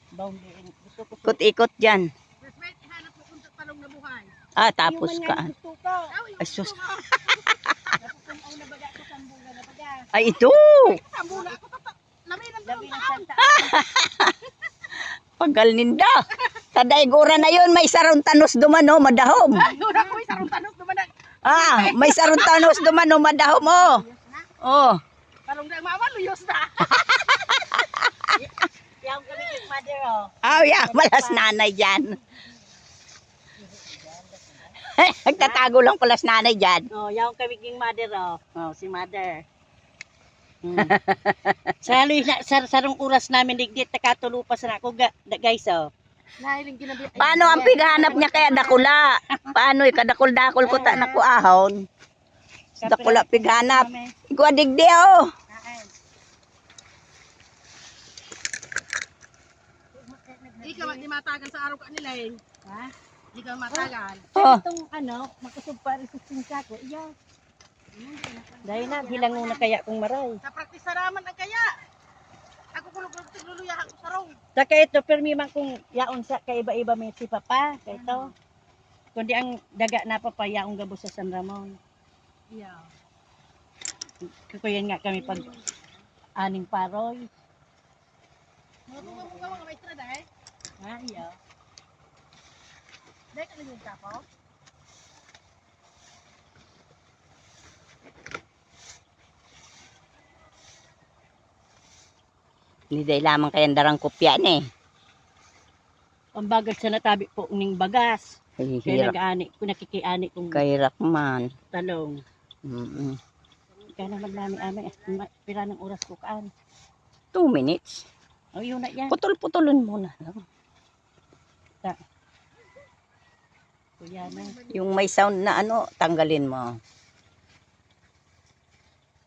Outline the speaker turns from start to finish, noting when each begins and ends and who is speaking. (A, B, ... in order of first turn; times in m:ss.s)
0:00.1-0:01.4 A
0:01.2-0:02.1 B
0:02.4-0:04.3 C
0:04.6-0:05.5 B
0:04.8-0:06.1 A
0:06.1-0:08.0 C
0:06.4-0:07.4 B
0:08.0-0:10.1 A
0:10.1-0:11.0 B
0:10.8-0:13.3 C
0:12.6-0:13.8 A
0:13.6-0:14.4 B
0:15.4-0:19.7 B
0:19.5-0:22.9 C
0:19.6-0:20.2 A
0:21.4-0:24.0 B
0:23.7-0:24.4 C
0:24.6-0:25.0 B
0:25.4-0:27.2 C
0:27.0-0:28.4 B
0:28.4-0:31.5 A
0:30.4-0:32.2 B
0:33.6-0:34.8 A
0:34.8-0:36.9 B
0:35.3-0:35.6 A
0:36.9-0:39.4 A
0:40.6-0:41.0 A
0:40.8-0:41.8 B
0:41.8-0:45.9 A
0:46.4-0:48.8 C
0:47.1-0:51.8 B
0:50.6-0:51.2 A
0:52.8-0:54.1 A
0:52.8-0:55.2 B
0:55.5-0:55.9 A
1:00.0-1:01.0 A
1:00.6-1:02.4 C
1:02.6-1:02.9 A
1:03.3-1:04.3 C
1:03.7-1:07.1 A
1:04.4-1:04.6 B
1:08.6-1:10.4 A
1:08.7-1:09.6 C
1:10.4-1:11.8 C
1:12.7-1:14.4 C
1:14.5-1:18.3 A
1:17.9-1:18.3 C
1:19.1-1:21.8 A
1:22.5-1:22.9 C
1:24.5-1:25.5 A
1:25.3-1:25.6 C
1:26.4-1:27.3 A
1:28.9-1:30.2 C
1:29.0-1:29.6 A
1:30.8-1:31.4 A
1:33.3-1:34.2 C
1:42.9-1:44.6 B
1:46.3-1:50.6 A
1:48.6-1:49.1 B
1:50.5-1:51.5 B
1:51.7-1:52.2 A
1:52.6-1:53.2 B
1:53.9-1:56.5 A
1:54.1-1:54.9 C
1:57.3-1:58.0 B
1:58.5-1:59.1 A
1:59.1-2:00.4 B
2:04.0-2:04.6 A
2:04.2-2:04.8 C
2:04.7-2:06.7 B